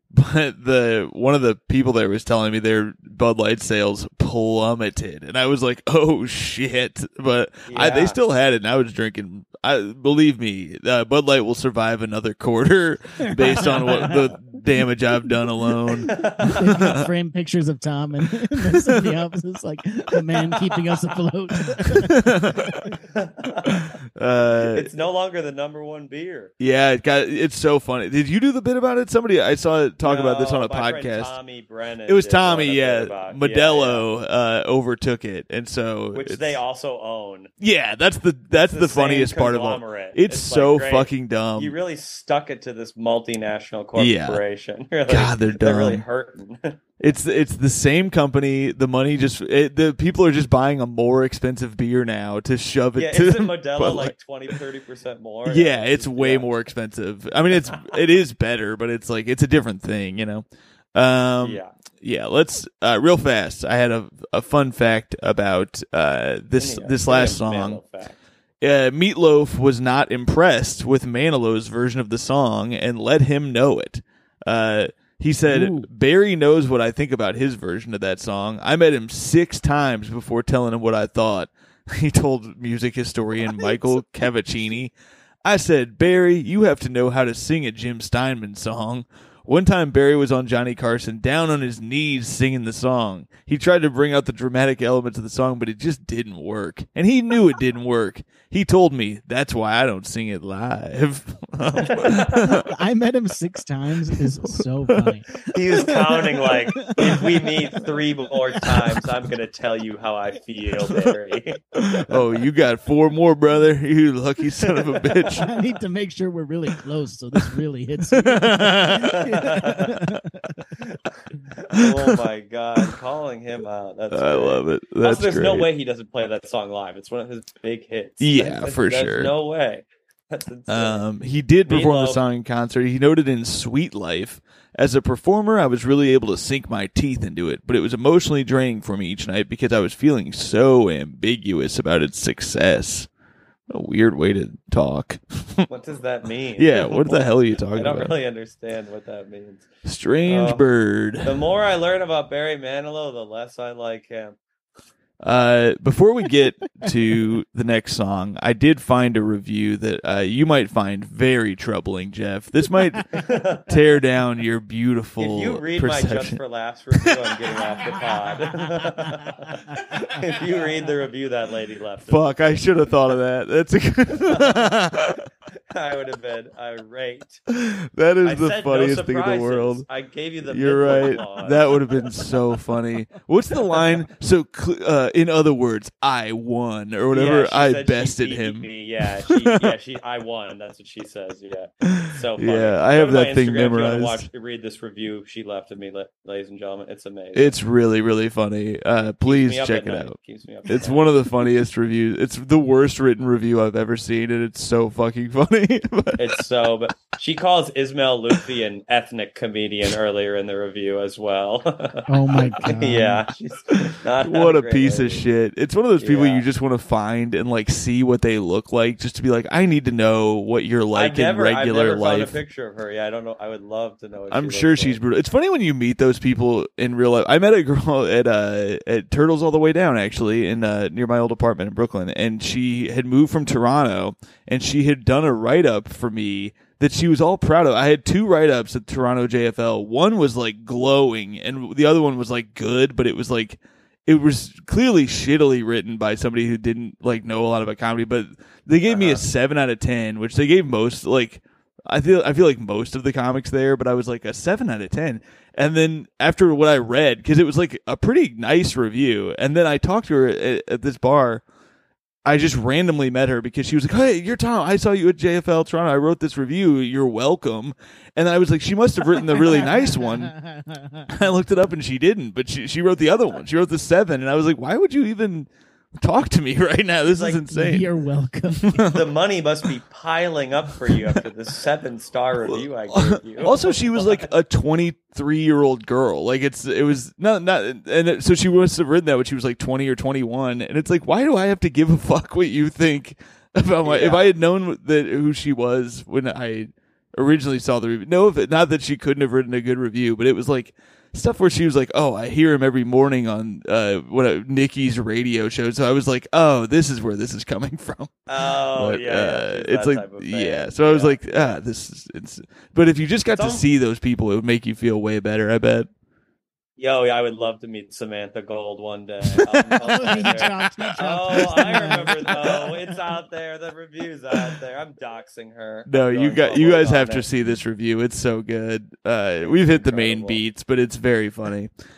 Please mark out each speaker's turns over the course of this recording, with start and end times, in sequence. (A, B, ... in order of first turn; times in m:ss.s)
0:00.1-0:17.1 A
0:07.7-0:08.2 B
0:13.8-0:14.1 C
0:16.1-0:16.9 B
0:16.4-0:22.8 C
0:18.6-0:19.1 A
0:21.8-0:22.8 A
0:23.0-0:23.9 B
0:23.6-0:24.9 A
0:24.6-0:26.5 B
0:26.6-0:31.3 A
0:30.0-0:34.0 B
0:32.1-0:36.6 A
0:36.1-0:37.5 B
0:37.6-0:41.7 A
0:38.6-0:46.8 B
0:44.0-0:44.4 A
0:45.1-0:46.0 A
0:47.0-0:54.1 A
0:53.0-0:56.5 B
0:55.4-1:07.8 A
1:01.4-1:01.7 B
1:06.6-1:08.2 B
1:08.6-1:24.9 A
1:15.5-1:15.9 C
1:25.4-1:42.7 A
1:41.8-1:42.6 B
1:42.4-1:47.9 C
1:44.2-1:45.2 A
1:45.5-1:52.2 B
1:48.6-1:49.1 A
1:51.7-1:55.5 A
1:54.6-1:55.5 B
1:55.4-2:00.6 C
1:58.1-1:59.3 A
1:59.1-2:00.0 B
2:01.6-2:11.1 B
2:01.7-2:02.2 A
2:04.1-2:05.7 A
2:08.2-2:09.3 A
2:10.7-2:23.1 A
2:11.7-2:12.2 B
2:23.7-2:25.7 A
2:25.7-2:29.7 B
2:26.6-2:28.1 A
2:29.8-2:31.4 A
2:30.2-2:30.6 B
2:31.2-2:34.4 B
2:35.2-2:46.4 A
2:43.1-2:43.8 B
2:45.2-2:52.6 B
2:52.1-2:55.2 A
2:54.2-2:54.7 B
2:55.7-2:57.4 B
2:57.5-2:59.8 A
2:58.2-3:01.8 B
3:00.5-3:08.7 A
3:07.1-3:17.6 B
3:09.2-3:09.7 A
3:12.0-3:14.3 A
3:17.3-3:20.2 A
3:19.2-3:21.0 B
3:20.7-3:26.4 A
3:26.2-3:35.2 B
3:32.1-3:33.2 C
3:34.2-3:42.4 A
3:36.0-3:36.4 B
3:40.9-3:45.0 B
3:44.3-4:21.4 A
4:08.9-4:09.3 B
4:22.2-4:30.4 A
4:31.1-4:37.9 A
4:37.0-4:37.4 B
4:37.5-4:39.0 C
4:38.6-4:39.0 A
4:38.9-4:44.3 B
4:42.5-5:15.9 A
4:53.8-4:54.3 B
5:08.3-5:11.6 B
5:13.4-5:13.6 B
5:16.8-5:27.3 B
5:19.4-5:20.5 A
5:19.8-5:23.0 C
5:21.6-5:22.0 A
5:25.9-5:31.7 A
5:29.4-5:30.4 B